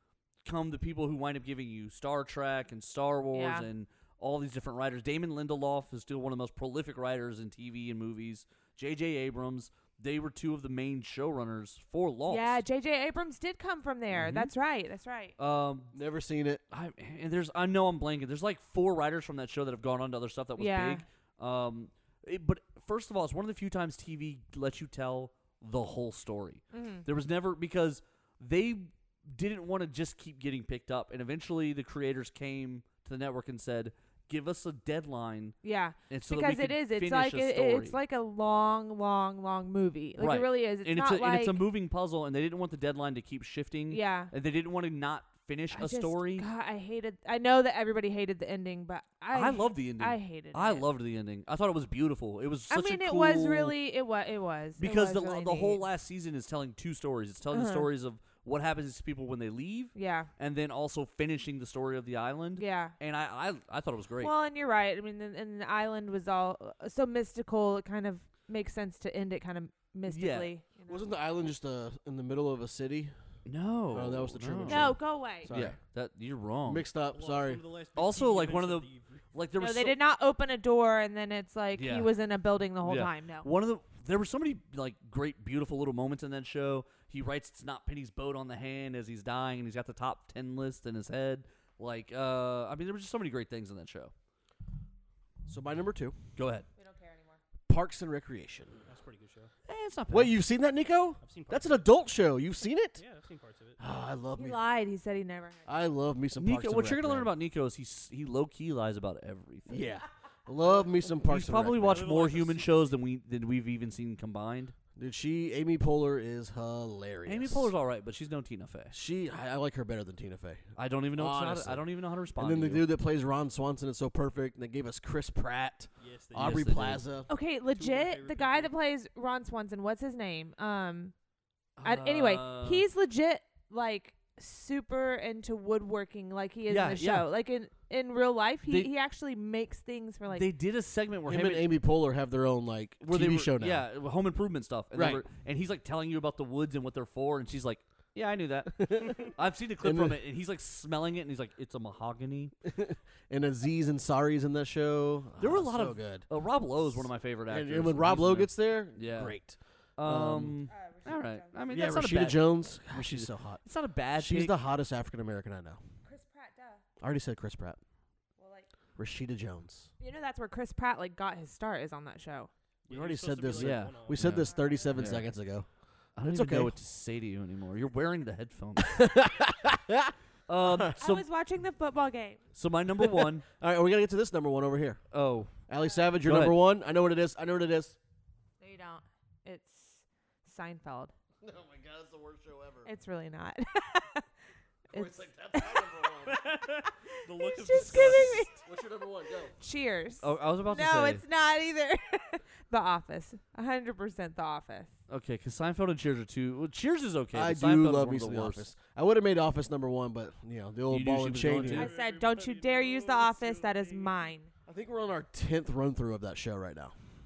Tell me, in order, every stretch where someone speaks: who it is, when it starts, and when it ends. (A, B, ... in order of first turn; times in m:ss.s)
0:00.4-0:12.6 A
0:03.3-0:03.7 B
0:12.3-0:15.4 B
0:14.1-0:14.5 A
0:15.4-0:15.9 A
0:15.9-0:16.6 C
0:16.7-0:35.6 A
0:20.6-0:21.0 B
0:26.7-0:27.0 B
0:35.6-0:41.6 B
0:36.1-0:38.0 A
0:40.2-0:46.4 A
0:43.9-0:44.3 B
0:45.7-0:50.9 B
0:49.3-0:53.7 A
0:52.7-0:55.8 B
0:54.8-1:04.3 A
0:57.5-0:57.9 B
0:59.9-1:00.3 B
1:02.6-1:02.9 B
1:04.2-1:11.0 B
1:10.1-1:10.5 A
1:10.9-1:13.1 C
1:13.4-1:15.0 A
1:13.9-1:15.8 C
1:14.7-1:15.5 B
1:15.5-1:16.8 A
1:16.7-1:17.6 C
1:17.1-1:19.3 D
1:18.0-1:20.0 A
1:19.6-1:23.5 B
1:21.7-1:22.1 A
1:22.8-1:34.1 A
1:35.4-1:36.2 C
1:36.4-1:36.7 A
1:36.8-1:37.4 B
1:37.7-1:38.8 C
1:38.8-1:39.5 D
1:39.7-1:40.4 A
1:40.1-1:43.0 C
1:41.2-1:41.9 D
1:43.0-1:43.8 D
1:43.8-1:44.6 C
1:44.4-1:45.8 B
1:45.7-1:47.3 C
1:46.4-1:49.8 A
1:49.7-1:52.1 C
1:51.3-1:54.7 A
1:51.8-1:52.8 D
1:55.0-1:57.7 C
1:57.3-1:58.9 A
1:58.9-2:01.8 C
2:00.8-2:02.9 A
2:02.4-2:07.3 C
2:06.0-2:06.8 D
2:06.3-2:07.0 A
2:07.3-2:11.1 B
2:07.7-2:08.7 D
2:11.8-2:12.8 A
2:11.8-2:20.5 B
2:16.7-2:17.3 A
2:20.3-2:21.6 A
2:21.3-2:23.8 C
2:23.1-2:32.5 A
2:24.9-2:25.2 C
2:28.7-2:29.3 C
2:29.8-2:30.2 C
2:32.6-2:36.3 C
2:35.4-2:39.4 A
2:36.9-2:40.6 C
2:40.0-2:44.6 A
2:40.7-2:41.9 B
2:41.7-2:43.6 C
2:44.2-2:45.8 C
2:46.0-2:46.8 B
2:47.0-2:47.8 C
2:48.4-2:48.7 B
2:49.0-2:49.9 C
2:50.0-2:52.5 B
2:52.9-2:54.4 D
2:52.9-2:55.7 C
2:53.6-2:55.3 A
2:54.4-2:55.0 B
2:56.2-2:59.0 A
2:56.2-2:56.7 C
2:58.8-3:00.9 C
3:00.5-3:01.2 A
3:01.0-3:02.4 B
3:02.6-3:03.4 A
3:03.0-3:05.0 C
3:05.1-3:05.5 A
3:05.7-3:08.0 C
3:06.2-3:06.6 A
3:08.6-3:11.1 B
3:11.4-3:12.9 C
3:12.8-3:14.3 B
3:14.9-3:16.2 B
3:14.9-3:16.4 C
3:16.2-3:18.6 D
3:16.8-3:18.6 B
3:17.7-3:19.5 C
3:19.6-3:24.9 B
3:20.2-3:21.2 A
3:25.1-3:28.7 A
3:27.3-3:31.9 C
3:30.9-3:31.9 A
3:31.4-3:34.3 D
3:31.7-3:34.5 B
3:34.7-3:36.9 C